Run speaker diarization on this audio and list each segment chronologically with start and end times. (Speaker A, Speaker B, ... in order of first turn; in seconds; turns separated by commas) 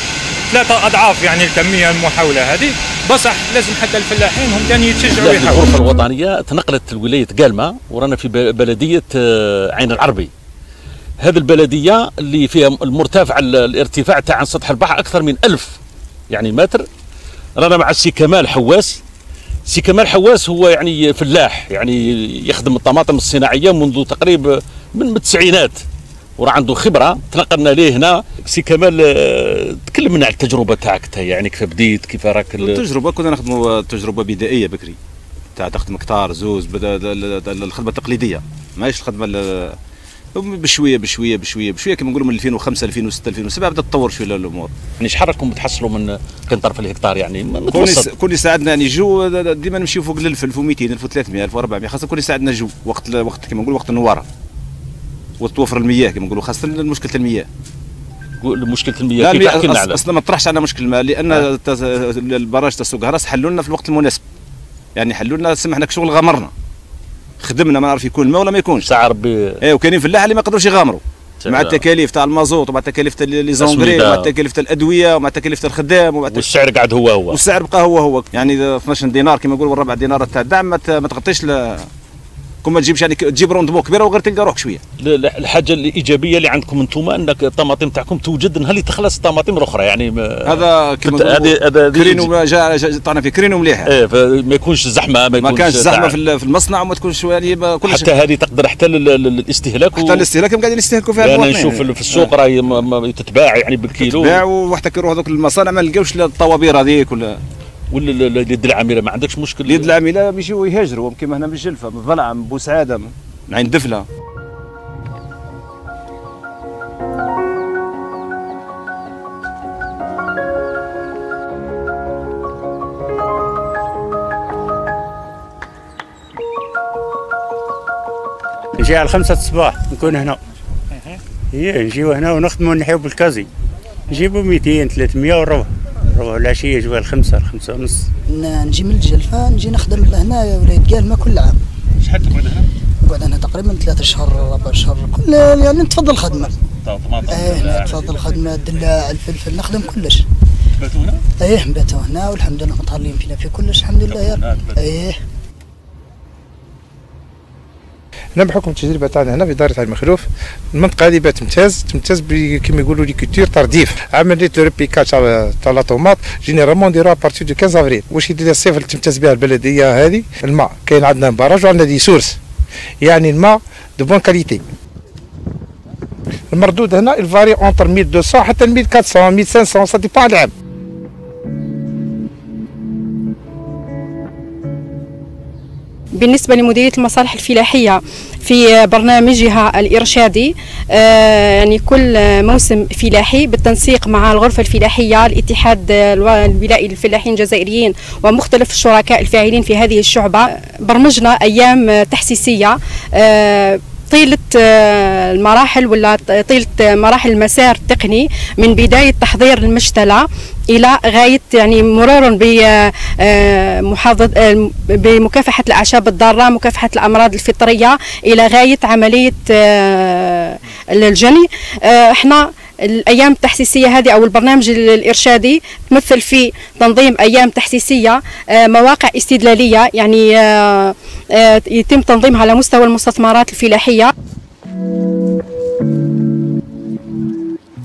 Speaker A: 0.5-5.6, Speaker B: 5.2-10.3, Speaker B: 11.2-15.8, Speaker B: 16.3-16.9, Speaker B: 17.6-19.0, Speaker B: 19.7-25.8, Speaker B: 26.4-32.8, Speaker C: 32.6-35.0, Speaker C: 35.6-39.8, Speaker C: 40.4-44.7, Speaker B: 45.0-48.1, Speaker C: 47.7-54.2, Speaker C: 55.4-57.5, Speaker B: 58.4-60.0, Speaker C: 59.2-64.2, Speaker C: 65.0-66.5, Speaker C: 67.4-68.9, Speaker B: 68.8-69.4, Speaker C: 69.6-76.5, Speaker B: 71.4-71.8, Speaker B: 73.6-74.3, Speaker B: 76.3-77.4, Speaker C: 77.3-81.8, Speaker C: 82.6-84.8, Speaker B: 85.0-92.3, Speaker C: 90.5-93.9, Speaker B: 93.9-96.2, Speaker C: 95.4-98.1, Speaker B: 97.9-100.3, Speaker C: 99.9-102.3, Speaker B: 101.2-104.4, Speaker C: 104.0-107.4, Speaker B: 107.9-109.9, Speaker C: 109.7-114.0, Speaker D: 128.8-130.4, Speaker D: 131.5-133.5, Speaker D: 134.1-138.1, Speaker E: 138.3-141.6, Speaker B: 142.0-142.7, Speaker E: 143.0-146.5, Speaker B: 146.7-148.1, Speaker E: 147.3-150.2, Speaker B: 150.8-151.2, Speaker E: 151.4-155.2, Speaker B: 154.1-154.8, Speaker F: 158.4-172.4, Speaker F: 173.0-174.6, Speaker F: 176.5-180.5, Speaker G: 186.1-234.1